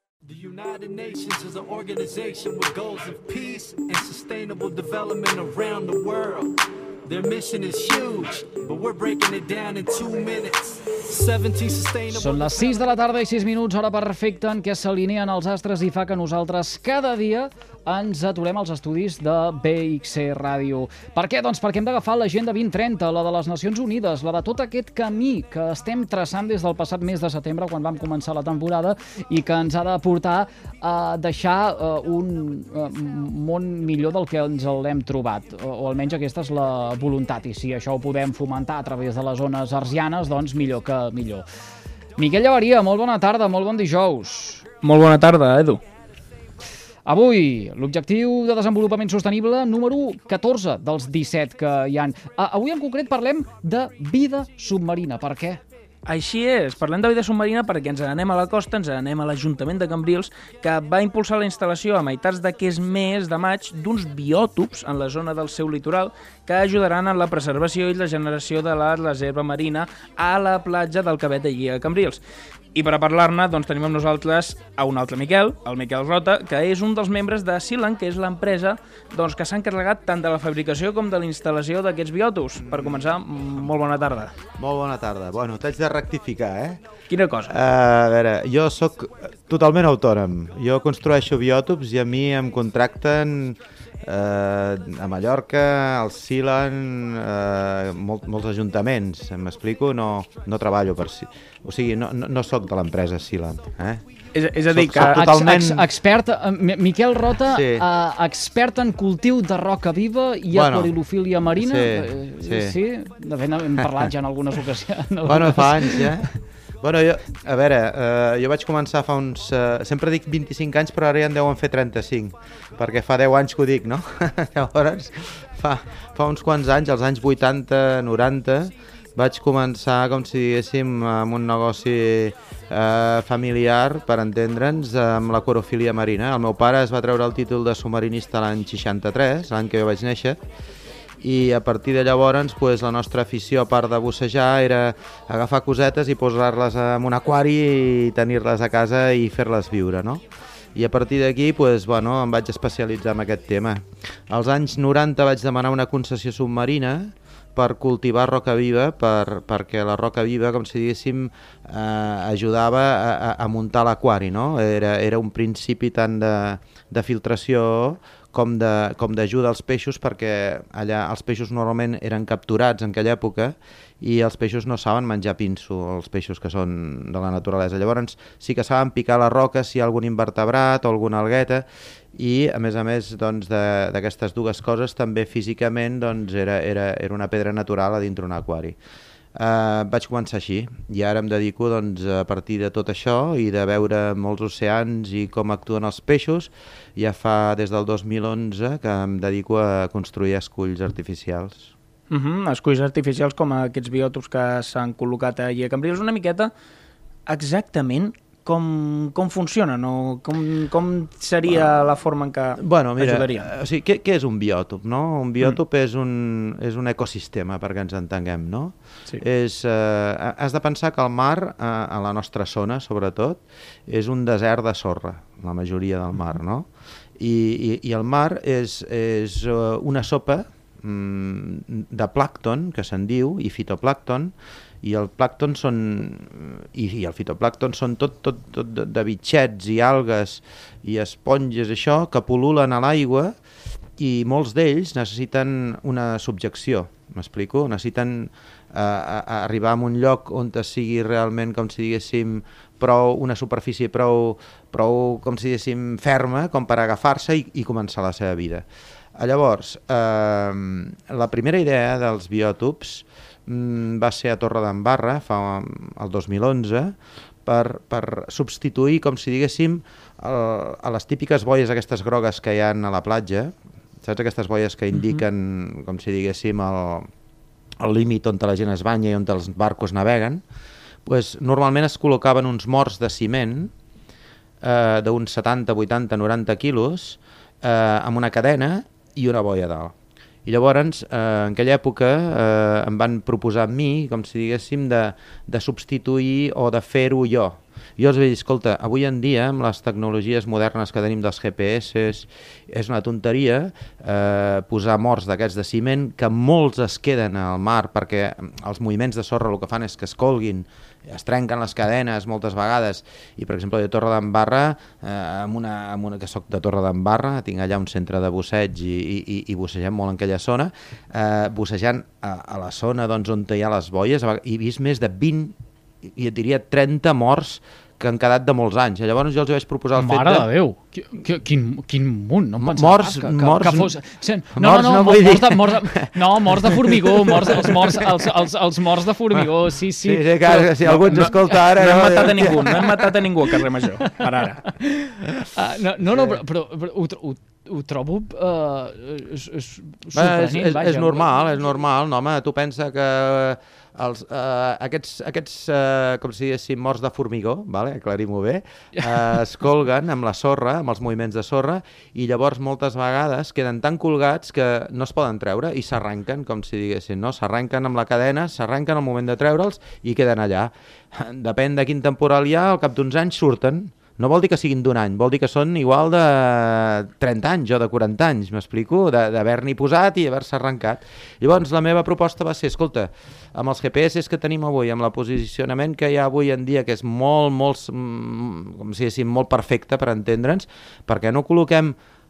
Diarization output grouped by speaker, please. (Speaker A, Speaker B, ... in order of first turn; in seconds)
Speaker A: 0.2-12.9
Speaker B: 12.1-41.4, 42.2-44.6, 47.0-55.6, 105.0-116.2, 329.9-341.3, 344.6-351.3
Speaker C: 44.8-45.8, 56.0-72.2, 72.7-84.3, 87.1-87.5, 104.3-105.2, 202.1-206.5, 207.3-213.5, 274.9-275.2, 341.1-344.6
Speaker D: 82.8-83.1, 84.6-86.8, 87.5-104.0, 104.7-105.9, 107.5-107.9, 110.5-110.9, 111.5-112.8, 115.2-140.4, 141.2-150.2, 150.7-188.8, 189.3-201.7, 211.6-211.9, 212.6-226.7, 227.2-243.3, 244.0-258.6, 259.1-266.9, 267.4-273.5, 274.0-277.1, 277.8-280.4, 281.1-283.7, 284.6-289.9, 290.4-330.5, 332.6-334.0, 334.5-338.1, 340.0-343.0, 350.1-391.9